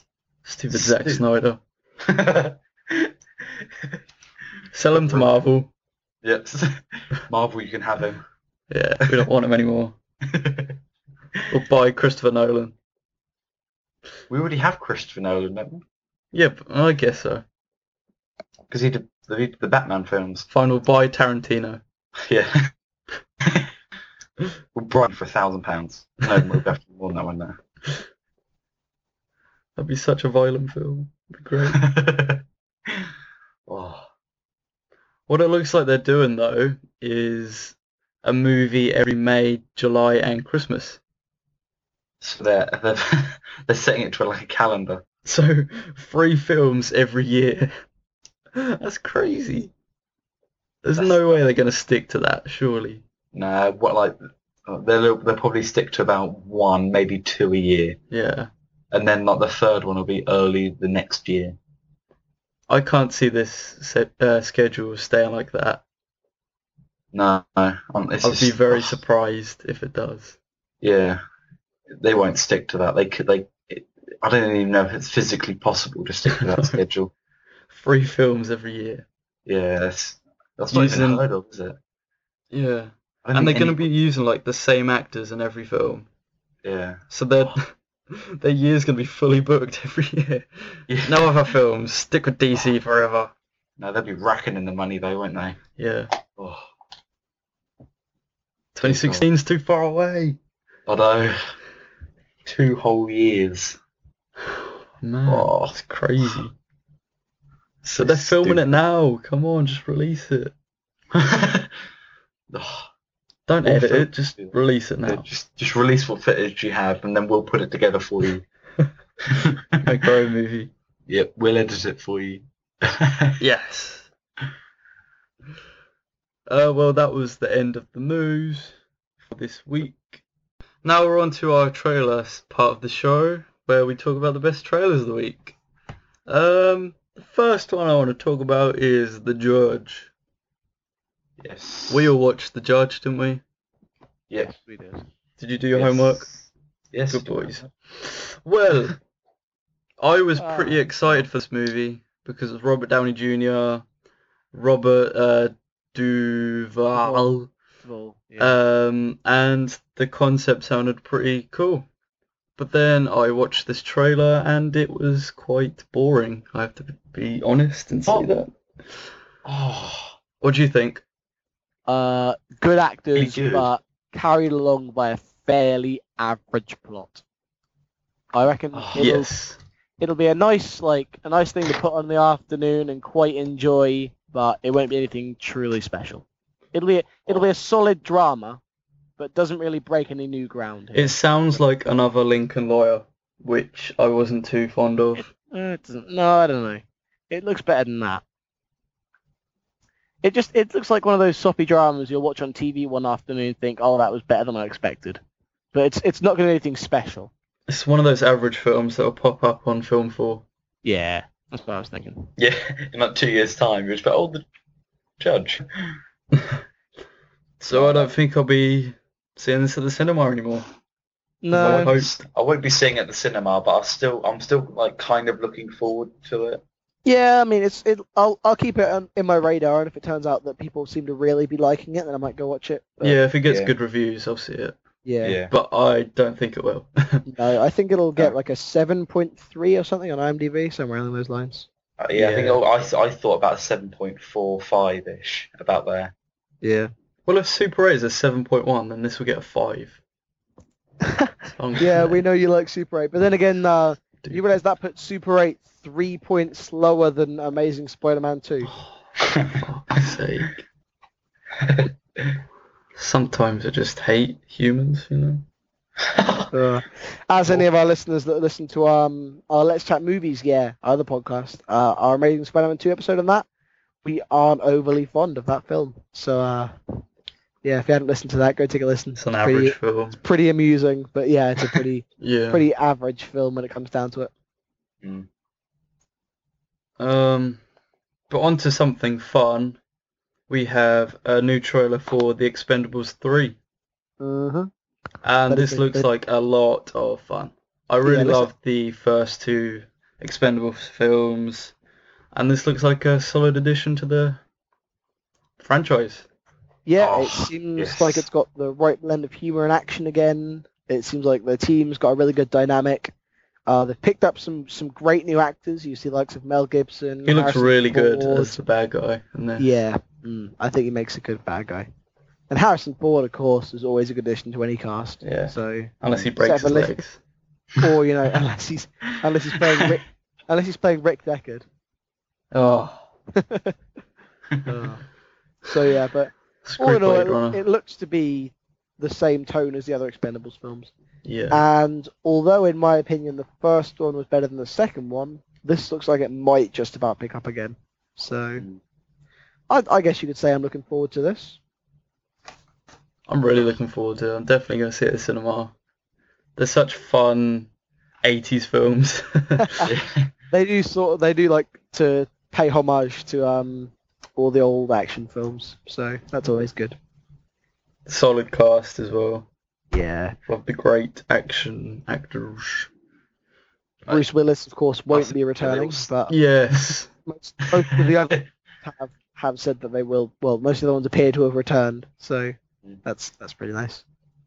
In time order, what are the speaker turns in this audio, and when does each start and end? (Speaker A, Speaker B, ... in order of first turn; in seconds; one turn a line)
Speaker A: 0.4-1.6
Speaker B: 0.7-1.2
Speaker B: 2.0-3.1
Speaker A: 4.7-5.7
Speaker B: 4.9-5.3
Speaker B: 6.2-8.2
Speaker A: 8.7-9.9
Speaker B: 10.2-10.8
Speaker A: 11.5-12.7
Speaker B: 14.3-15.8
Speaker A: 16.3-17.4
Speaker B: 18.7-20.5
Speaker A: 20.5-21.8
Speaker B: 22.3-22.7
Speaker B: 24.7-27.6
Speaker A: 26.3-26.6
Speaker A: 29.8-31.8
Speaker B: 31.6-33.1
Speaker B: 33.7-34.1
Speaker A: 35.3-41.0
Speaker B: 42.2-45.0
Speaker A: 45.2-47.7
Speaker A: 48.5-49.7
Speaker A: 50.8-53.0
Speaker B: 50.9-51.4
Speaker B: 53.3-58.0
Speaker A: 58.1-58.5
Speaker B: 58.9-61.6
Speaker A: 62.7-65.8
Speaker B: 67.1-69.0
Speaker A: 68.2-70.4
Speaker B: 70.8-71.2
Speaker B: 72.0-77.1
Speaker A: 76.3-76.8
Speaker A: 77.7-79.0
Speaker B: 79.5-81.8
Speaker A: 80.7-81.2
Speaker A: 82.5-86.1
Speaker B: 83.2-83.8
Speaker B: 86.6-87.6
Speaker A: 87.1-93.3
Speaker B: 90.9-91.5
Speaker B: 93.8-95.6
Speaker A: 95.8-96.1
Speaker B: 96.4-96.7
Speaker A: 98.7-100.4
Speaker B: 98.8-99.2
Speaker B: 100.9-101.5
Speaker B: 102.4-103.8
Speaker A: 104.4-106.5
Speaker B: 105.3-106.4
Speaker B: 107.8-108.6
Speaker A: 107.9-110.5
Speaker B: 111.1-111.7
Speaker B: 112.5-112.9
Speaker A: 113.5-115.2
Speaker B: 113.6-118.4
Speaker B: 119.3-119.8
Speaker A: 119.8-120.7
Speaker B: 121.1-123.4
Speaker A: 123.4-124.1
Speaker A: 126.5-128.8
Speaker A: 129.3-130.2
Speaker A: 130.8-135.6
Speaker A: 136.2-140.1
Speaker B: 141.4-142.1
Speaker A: 141.9-143.4
Speaker C: 144.4-145.0
Speaker A: 145.4-146.2
Speaker B: 145.7-147.7
Speaker A: 147.1-148.9
Speaker A: 150.0-153.8
Speaker C: 150.4-150.9
Speaker A: 154.5-157.5
Speaker C: 156.9-157.3
Speaker C: 157.8-158.6
Speaker A: 158.4-161.9
Speaker A: 162.6-168.5
Speaker B: 169.4-170.2
Speaker A: 170.4-171.0
Speaker C: 171.9-177.2
Speaker B: 173.1-173.7
Speaker C: 178.3-179.3
Speaker B: 178.7-179.1
Speaker A: 178.9-179.6
Speaker C: 180.0-188.6
Speaker C: 189.2-191.2
Speaker A: 190.9-195.3
Speaker C: 195.2-198.2
Speaker C: 200.2-205.2
Speaker C: 205.7-207.3
Speaker A: 207.7-210.4
Speaker C: 210.8-212.3
Speaker B: 212.4-214.4
Speaker B: 215.2-215.6
Speaker A: 217.6-220.7
Speaker B: 217.7-218.1
Speaker C: 221.4-221.9
Speaker A: 221.5-222.2
Speaker B: 221.5-226.6
Speaker C: 227.0-233.2
Speaker A: 233.0-234.8
Speaker B: 233.4-233.7
Speaker C: 235.0-235.4
Speaker B: 235.2-235.5
Speaker A: 235.5-237.2
Speaker C: 237.2-242.6
Speaker B: 242.0-246.1
Speaker C: 246.6-246.9
Speaker A: 247.3-250.0
Speaker C: 251.0-258.7
Speaker A: 251.5-252.2
Speaker B: 259.2-260.0
Speaker A: 259.6-260.6
Speaker B: 261.6-262.4
Speaker A: 262.9-265.4
Speaker B: 266.0-266.5
Speaker C: 266.5-273.4
Speaker C: 274.0-276.7
Speaker C: 277.6-284.3
Speaker A: 279.1-280.2
Speaker A: 282.2-282.6
Speaker A: 287.0-287.6
Speaker A: 288.3-289.8
Speaker A: 290.5-293.6
Speaker C: 294.2-294.7
Speaker A: 295.2-301.7
Speaker C: 295.5-296.1
Speaker C: 298.0-298.5
Speaker A: 302.3-304.4
Speaker A: 305.6-306.2
Speaker C: 306.9-313.1
Speaker B: 307.0-308.2
Speaker C: 313.7-318.6
Speaker A: 317.2-319.6
Speaker C: 319.6-321.9
Speaker C: 322.5-327.0
Speaker A: 325.2-327.2
Speaker C: 327.8-331.6
Speaker A: 332.5-333.0
Speaker C: 333.4-333.7
Speaker C: 334.6-335.0
Speaker C: 335.6-340.9
Speaker A: 336.6-337.6
Speaker A: 341.2-341.6
Speaker C: 341.5-348.6
Speaker C: 349.7-351.6
Speaker A: 353.3-355.7
Speaker A: 356.6-357.7
Speaker A: 358.2-359.9
Speaker B: 359.8-360.3
Speaker C: 360.5-367.0
Speaker A: 368.1-369.5
Speaker C: 369.9-370.4
Speaker A: 370.5-372.9
Speaker C: 374.1-376.3
Speaker B: 375.1-376.1
Speaker A: 376.3-377.1
Speaker C: 377.2-384.0
Speaker B: 377.9-378.4